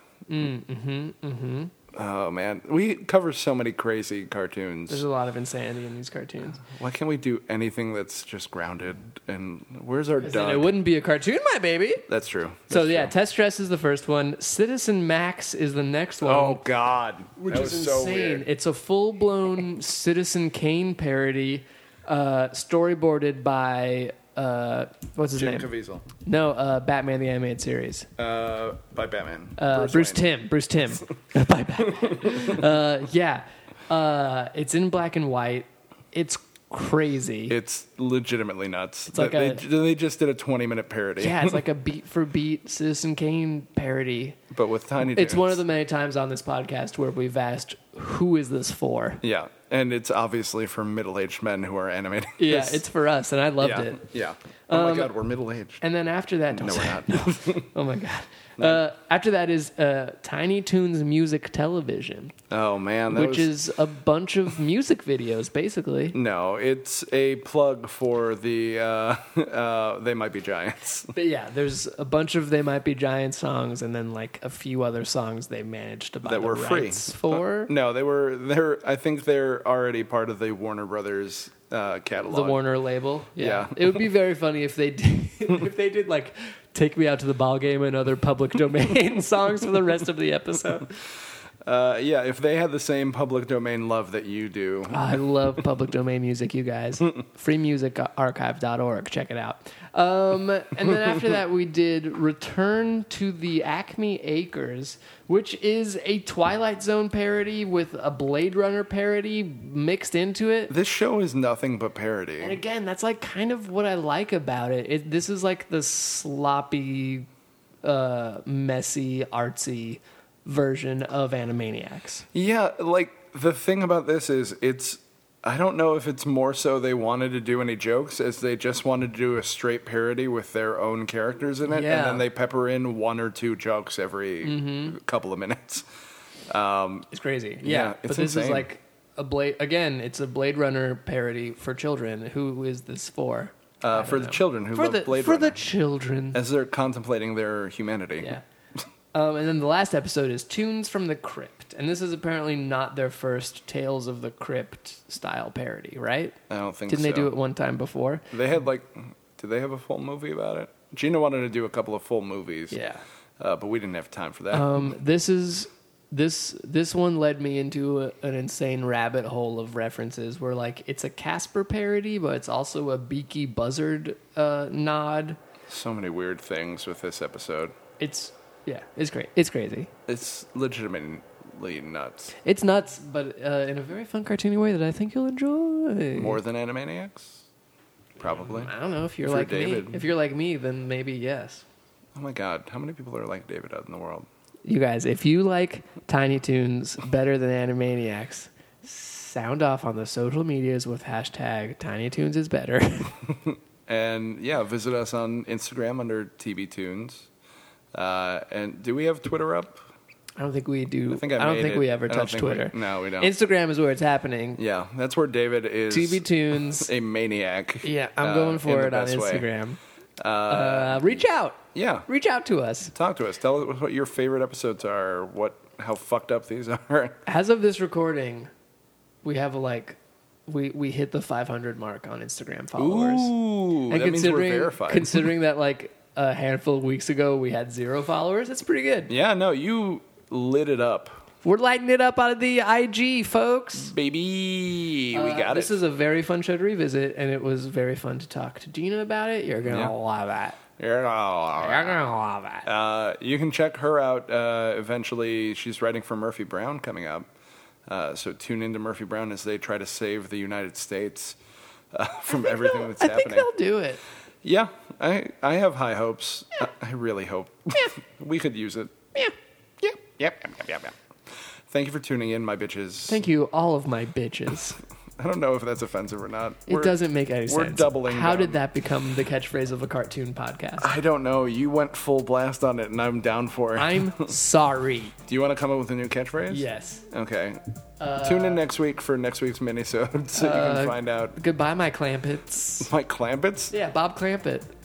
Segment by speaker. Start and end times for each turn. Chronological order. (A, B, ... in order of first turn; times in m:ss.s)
0:00.3-0:01.7 A
0:01.9-0:05.0 B
0:04.9-0:06.6 A
0:06.6-0:10.7 B
0:10.2-0:12.0 A
0:12.1-0:13.1 B
0:12.7-0:16.6 A
0:16.2-0:18.5 B
0:17.4-0:28.1 A
0:25.3-0:26.0 B
0:28.2-0:30.2 B
0:29.6-0:37.5 A
0:37.5-0:41.6 B
0:39.1-0:39.6 A
0:41.2-0:44.4 A
0:44.5-0:45.6 B
0:45.0-0:49.2 A
0:49.2-0:52.8 B
0:52.4-0:54.0 A
0:53.6-0:55.8 B
0:54.7-0:55.1 A
0:55.8-1:02.3 A
0:56.5-0:57.7 B
0:58.6-0:58.8 B
1:02.5-1:03.5 B
1:03.1-1:06.2 A
1:06.1-1:11.1 B
1:11.1-1:17.7 A
1:16.2-1:22.6 B
1:22.3-1:31.0 A
1:23.4-1:24.0 B
1:31.6-1:35.2 B
1:34.9-1:50.7 A
1:50.7-1:52.6 B
1:52.4-1:57.3 A
1:57.8-2:02.2 A
2:02.3-2:15.8 B
2:11.6-2:12.2 A
2:14.4-2:15.0 A
2:16.5-2:17.1 B
2:17.1-2:26.4 A
2:17.6-2:18.7 B
2:23.8-2:25.6 B
2:26.3-2:28.4 B
2:29.1-2:36.4 A
2:36.5-2:37.3 B
2:36.9-2:38.4 A
2:38.3-2:42.8 B
2:42.7-2:43.0 A
2:43.4-2:44.9 B
2:44.5-2:55.4 A
2:55.7-2:57.7 B
2:58.0-2:59.9 A
3:00.1-3:02.3 B
3:02.4-3:06.4 A
3:06.1-3:07.4 B
3:08.2-3:08.7 B
3:08.2-3:11.6 A
3:09.2-3:10.0 B
3:12.1-3:14.3 B
3:14.6-3:23.2 A
3:23.4-3:27.3 B
3:27.9-3:29.8 B
3:30.4-3:34.6 A
3:31.1-3:33.3 B
3:34.6-3:39.5 B
3:35.9-3:36.9 A
3:37.8-3:39.8 A
3:40.2-3:42.1 B
3:40.5-3:42.9 A
3:42.9-3:47.2 B
3:47.2-3:48.5 A
3:49.2-3:53.3 A
3:52.8-3:55.3 B
3:53.9-3:59.1 A
3:59.1-4:01.2 B
4:01.4-4:03.9 A
4:03.8-4:05.8 B
4:05.1-4:10.6 A
4:09.6-4:09.9 B
4:10.8-4:12.0 B
4:11.6-4:12.7 A
4:12.6-4:17.3 B
4:17.9-4:21.4 B
4:21.9-4:23.5 B
4:22.3-4:24.0 A
4:24.4-4:30.9 B
4:31.7-4:33.2 B
4:33.1-4:34.8 A
4:35.2-4:38.6 B
4:36.7-4:40.9 A
4:40.8-4:44.3 B
4:43.8-4:45.1 A
4:45.2-4:47.6 B
4:46.5-4:47.0 A
4:48.0-4:48.6 A
4:48.2-4:51.4 B
4:50.3-4:52.9 A
4:52.8-4:53.7 B
4:53.7-4:54.7 A